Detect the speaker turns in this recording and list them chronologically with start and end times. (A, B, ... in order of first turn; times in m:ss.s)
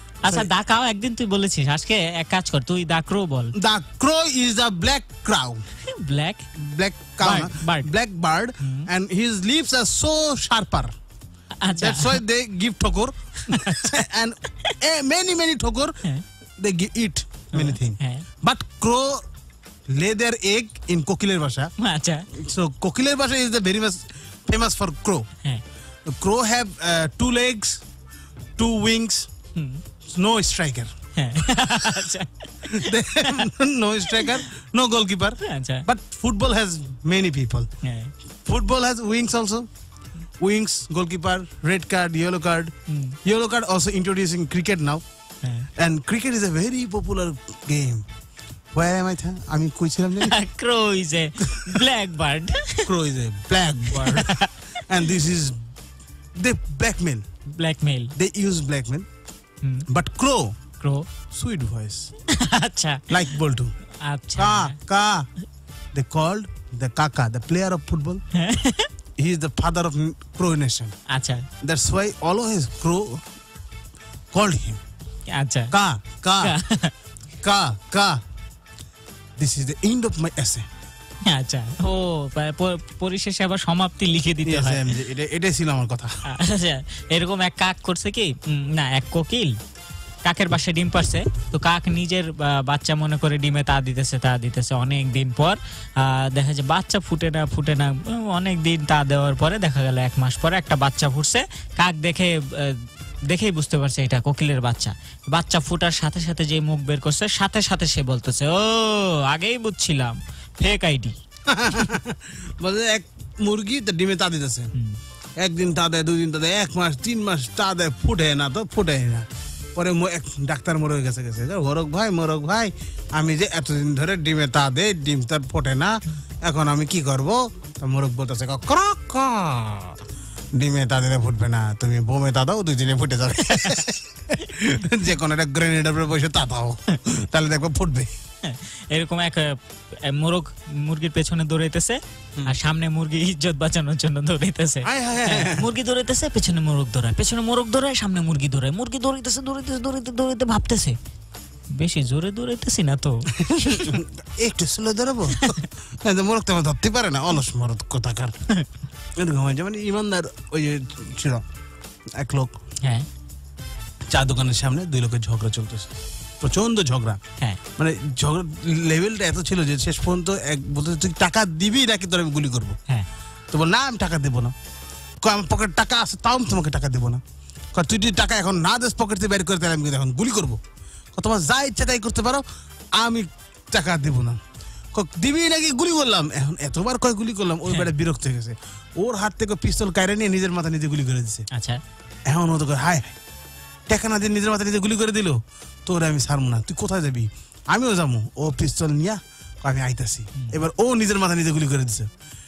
0:00.2-0:03.5 A
0:03.5-0:05.6 B
0:05.8-0:06.5 A
0:06.5-0:10.9 B
0:07.2-0:07.9 A
0:08.6-0:08.9 A
0:11.6-0:12.2 A
0:11.8-0:16.0 B
0:13.4-0:14.0 A
0:16.6-0:19.2 B
0:17.5-0:18.2 A
0:19.9-0:21.7 B
0:21.8-0:22.3 A
0:22.3-0:25.3 B
0:26.0-0:27.8 B
0:28.6-0:29.3 B
0:29.6-0:29.8 A
0:30.1-0:30.9 B
0:31.2-0:33.4 A
0:32.7-0:37.7 B
0:34.1-0:34.4 A
0:35.4-0:35.8 A
0:37.8-0:38.1 A
0:38.4-0:39.7 B
0:40.4-0:42.7 B
0:42.9-0:43.2 A
0:43.2-0:45.0 B
0:45.8-0:48.0 B
0:48.7-0:50.3 B
0:50.2-0:52.9 A
0:52.8-0:54.3 B
0:53.9-0:54.5 A
0:54.8-0:55.6 B
0:56.4-0:57.2 B
0:57.5-0:58.1 A
0:58.1-0:59.1 B
0:59.9-1:00.6 B
1:00.8-1:01.1 A
1:01.3-1:02.1 B
1:02.3-1:03.2 A
1:03.1-1:03.7 B
1:04.0-1:04.8 A
1:04.4-1:05.3 B
1:05.9-1:08.2 B
1:08.3-1:08.9 A
1:09.2-1:11.0 B
1:11.1-1:11.4 A
1:11.6-1:13.2 B
1:14.3-1:14.8 B
1:15.3-1:15.7 A
1:15.7-1:16.5 B
1:16.4-1:16.9 A
1:17.4-1:18.2 B
1:19.4-1:20.7 B
1:21.3-1:24.9 A
1:24.4-1:26.1 B
1:26.2-1:29.6 A
1:30.2-1:51.2 A
1:51.5-1:54.7 B
1:55.4-2:10.0 B
2:10.6-2:18.1 B
2:18.4-2:31.0 A
2:24.8-2:25.7 B
2:31.7-2:33.9 A
2:33.3-2:38.4 B
2:39.2-2:41.4 B
2:42.1-2:42.5 B
2:44.1-2:47.2 B
2:47.8-2:52.8 B
2:53.5-2:54.5 B
2:55.2-2:57.2 B
2:57.7-3:00.6 B
3:01.1-3:04.4 B
3:04.9-3:11.5 B
3:11.5-3:11.8 A
3:12.3-3:13.2 B
3:13.9-3:22.1 B